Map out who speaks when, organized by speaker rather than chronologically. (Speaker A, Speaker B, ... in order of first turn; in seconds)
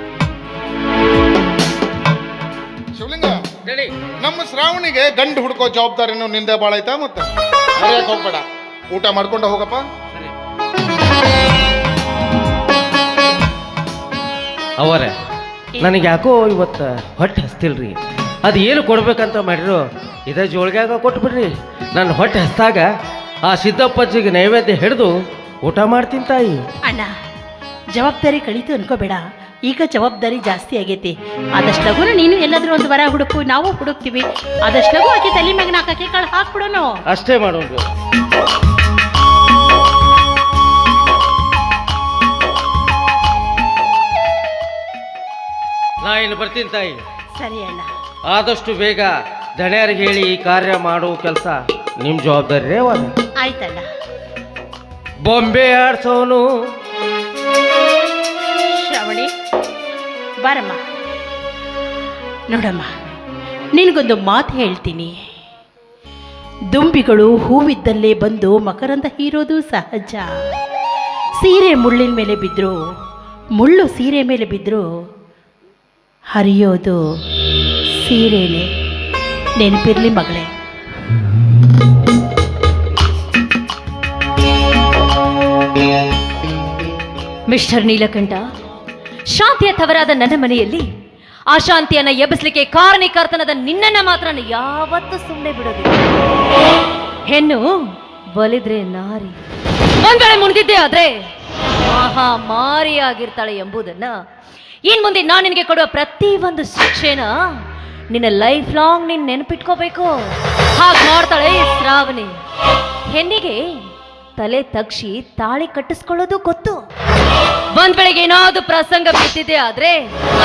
Speaker A: 3.0-3.4, 4.2-9.8
Speaker B: 3.7-3.9, 14.8-15.1, 15.8-22.9, 23.5-25.1, 25.6-26.6, 37.1-37.9, 46.0-47.0, 48.3-53.1, 55.3-56.5
Speaker C: 26.9-27.1, 27.9-36.9, 47.4-47.9, 53.4-53.9, 58.7-59.3, 60.4-60.8, 62.5-62.9, 63.8-65.2, 66.7-70.3, 71.4-72.8, 73.6-74.8, 76.3-77.0, 78.0-78.7, 79.6-80.5
Speaker D: 87.5-88.5, 89.3-90.9, 91.5-96.0, 97.3-99.4, 100.0-101.2, 101.9-104.2, 104.8-107.5, 108.1-112.3, 113.1-113.7, 114.4-116.8, 117.7-120.0